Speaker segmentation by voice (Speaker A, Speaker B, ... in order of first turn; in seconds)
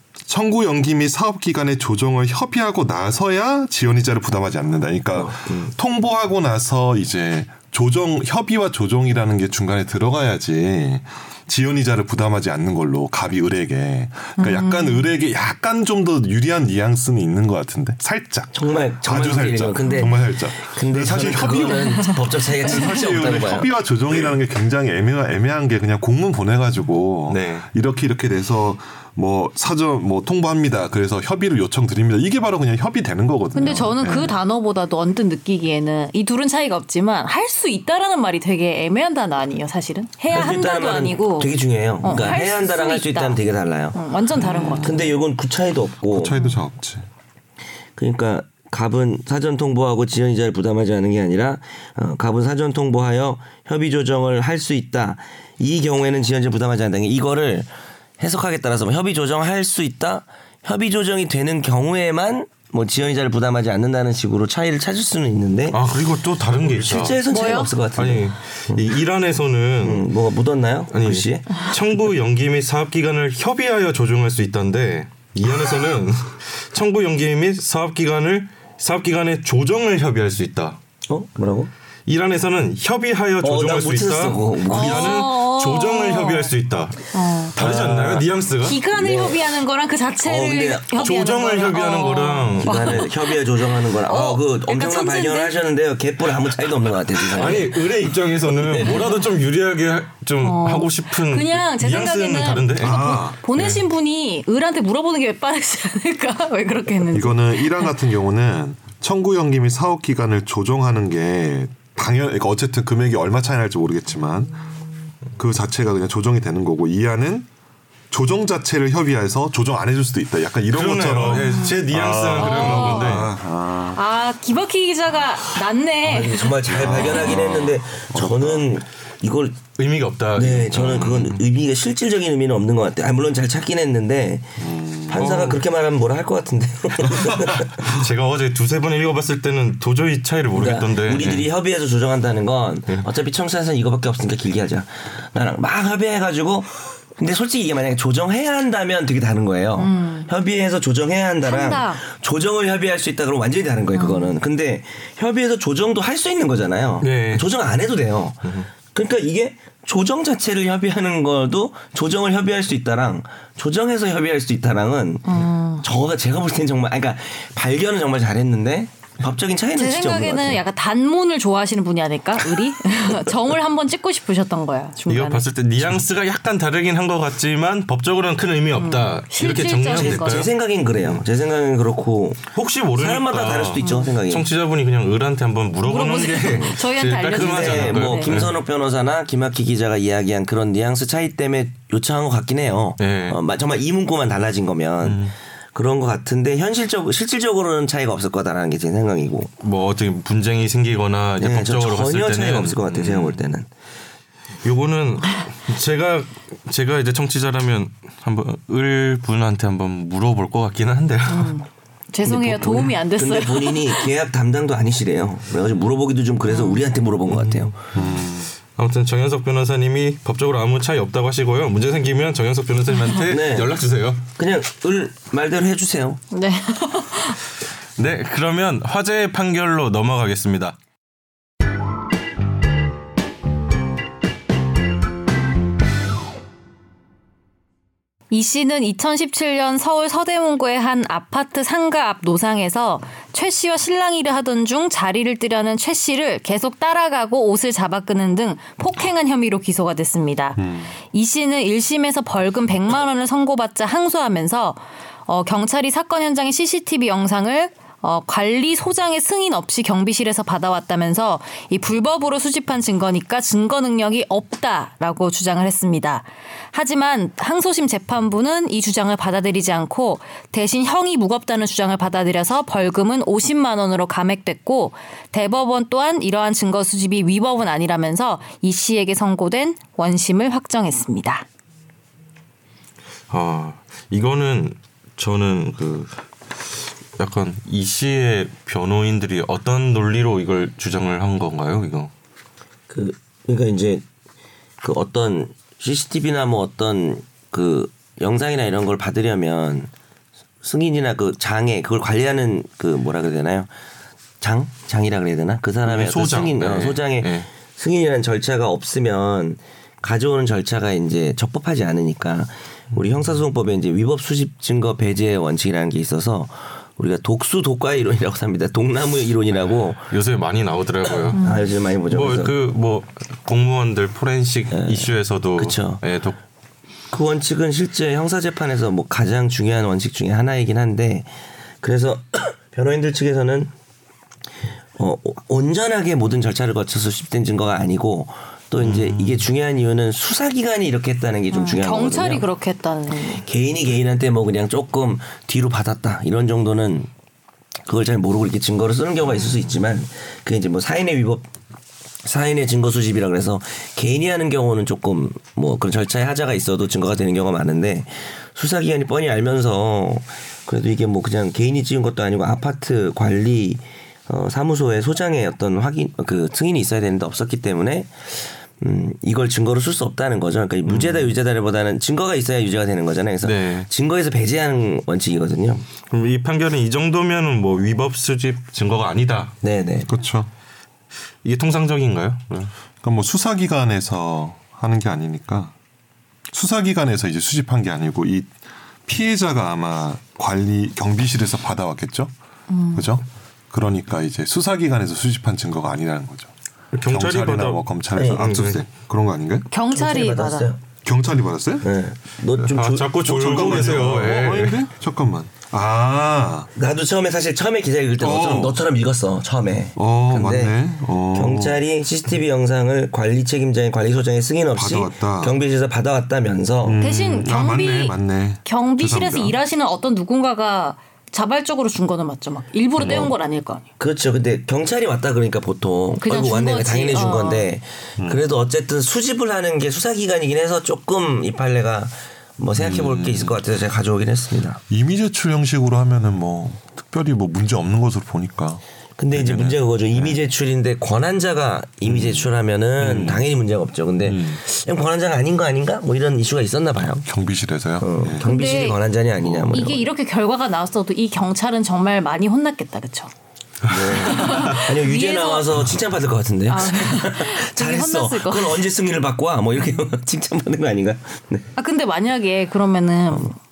Speaker A: 0.3-34.4, 44.3-45.1, 46.1-47.1, 102.8-103.4, 107.1-114.5, 115.4-117.5, 118.1-124.0, 126.6-128.7, 134.6-135.4, 217.9-218.5, 250.6-250.9, 380.1-380.5, 383.0-385.7, 386.5-388.5, 389.1-392.3, 392.9-396.5, 397.1-399.7, 401.1-401.9, 403.2-406.7, 408.2-408.8, 410.0-411.8, 414.7-415.6, 416.8-419.6, 432.8-433.6, 434.9-440.4, 442.0-443.4, 444.2-444.6, 447.2-448.5, 449.4-449.7
Speaker B: 5.1-5.7, 18.5-23.7, 40.3-44.0, 44.8-46.3, 48.0-65.8, 66.6-68.8, 69.8-71.7, 81.1-81.7, 83.4-85.3, 87.6-88.3, 88.9-89.5, 90.2-91.0, 92.6-99.2, 126.0-129.6, 130.4-137.9, 140.5-170.6, 179.8-184.5, 187.3-199.5, 201.4-203.7, 212.2-217.8, 223.3-223.7, 224.3-226.2, 292.9-294.0, 294.8-299.9, 300.6-303.7, 304.4-320.1, 321.4-322.5, 324.7-326.0, 327.1-333.7, 335.0-342.4, 343.3-347.1, 347.9-351.5, 352.2-375.9, 379.6-380.1, 398.2-398.4, 399.9-400.8, 401.8-404.0, 406.8-410.8, 411.3-417.0, 423.0-423.3, 424.0-434.8, 439.2-447.3, 448.0-450.1, 453.9-461.7
Speaker C: 14.4-15.1, 21.7-22.2, 33.5-43.4, 43.9-45.1, 67.3-67.8, 84.7-86.5, 87.1-87.6, 88.6-95.6, 100.4-107.9, 121.4-123.3, 123.9-127.2, 149.8-150.3, 151.4-152.0, 153.9-154.3, 165.3-165.8, 169.8-175.4, 178.8-180.5, 183.8-184.1, 185.8-188.4, 211.3-214.1, 216.5-216.8, 226.3-227.4, 238.3-281.5, 321.4-321.7, 341.5-343.4, 392.7-393.1, 399.7-400.7, 417.0-423.8, 426.2-427.7, 448.4-449.0, 449.7-453.3, 454.2-455.7, 456.7-458.9, 461.8-463.6
Speaker D: 27.3-27.7, 65.7-67.2, 68.0-70.1, 70.9-80.8, 82.1-88.8, 91.0-93.0, 97.1-103.8, 120.7-123.3, 129.8-131.4, 135.1-135.6, 137.8-141.5, 157.0-157.5, 175.1-181.2, 182.5-188.5, 193.0-193.4, 195.0-195.3, 199.6-203.4, 204.6-211.6, 217.3-224.2, 228.0-230.8, 283.3-286.2, 287.2-292.1, 305.9-307.5, 320.1-321.5, 322.1-326.4, 338.8-339.5, 370.9-371.4, 373.4-373.9, 376.1-379.6, 381.4-382.7, 396.9-398.8, 402.6-404.8, 453.9-454.8